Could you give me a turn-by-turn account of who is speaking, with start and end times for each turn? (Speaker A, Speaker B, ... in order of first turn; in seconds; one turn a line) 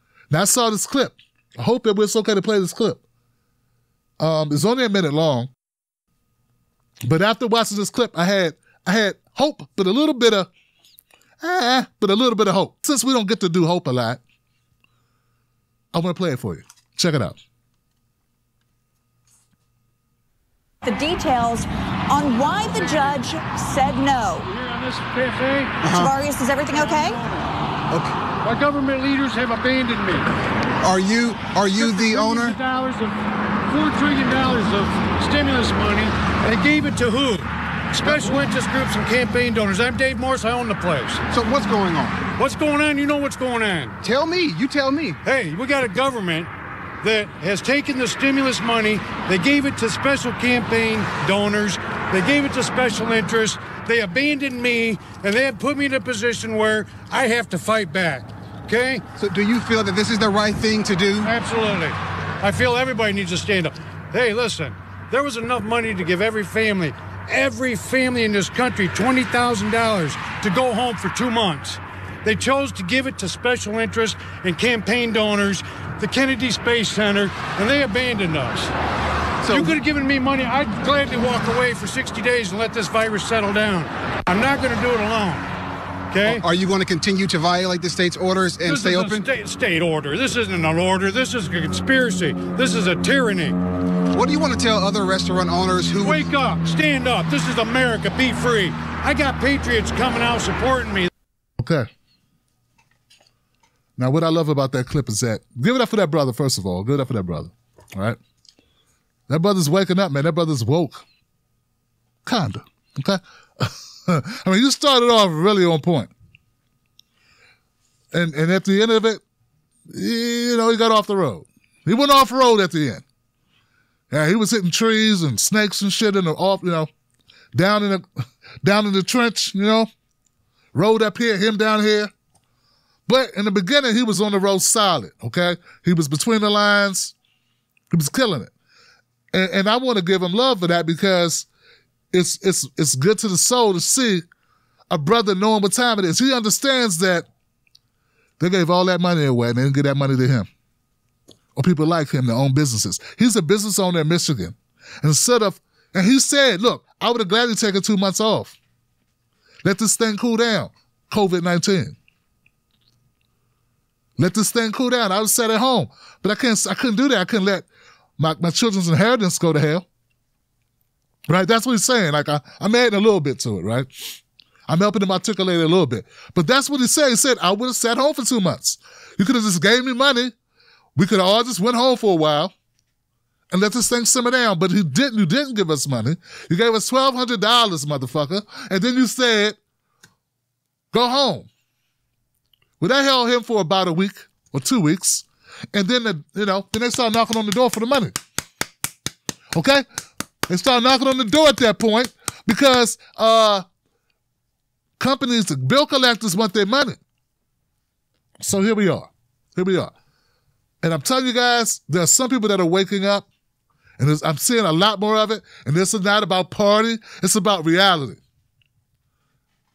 Speaker A: 0.3-3.0
Speaker A: 4.2-5.5
Speaker A: 7.0-10.5
Speaker A: 11.4-14.2
Speaker A: 15.9-17.4
Speaker B: 20.8-24.5
Speaker C: 22.3-23.2
Speaker C: 24.4-25.9
Speaker D: 25.8-26.2
Speaker B: 25.9-27.2
Speaker C: 26.7-27.5
Speaker D: 27.9-28.2
Speaker C: 28.4-30.3
Speaker D: 30.8-32.6
Speaker C: 31.7-41.2
Speaker D: 38.0-38.3
Speaker D: 41.3-42.2
Speaker C: 42.4-44.0
Speaker D: 44.0-45.2
Speaker C: 45.2-59.0
Speaker D: 59.1-61.3
Speaker C: 61.2-78.7
Speaker D: 79.4-79.7
Speaker C: 79.5-85.5
Speaker C: 86.1-86.4
Speaker D: 86.2-89.2
Speaker C: 88.6-93.6
Speaker D: 94.1-96.2
Speaker C: 96.0-101.1
Speaker A: 101.6-101.9
Speaker A: 104.0-108.2
Speaker A: 109.3-111.0
Speaker A: 112.2-116.1
Speaker A: 118.1-119.2
Speaker A: 119.9-123.0
Speaker A: 124.1-126.9
Speaker A: 127.5-128.0
Speaker A: 128.6-129.9
Speaker A: 130.7-132.1
Speaker A: 133.1-137.1
Speaker A: 137.9-138.5
Speaker A: 139.3-141.5
Speaker A: 142.1-144.2
Speaker A: 144.9-147.3
Speaker A: 148.4-150.5
Speaker A: 151.6-158.6
Speaker A: 159.6-162.0
Speaker A: 164.2-167.7
Speaker A: 168.2-169.8
Speaker A: 171.3-180.3
Speaker A: 180.9-182.5
Speaker A: 183.5-189.6
Speaker A: 190.9-191.5
Speaker A: 192.8-198.2
Speaker A: 199.5-199.8
Speaker A: 200.5-203.6
Speaker A: 205.0-207.0
Speaker A: 208.4-209.9
Speaker A: 210.8-213.3
Speaker A: 214.0-218.2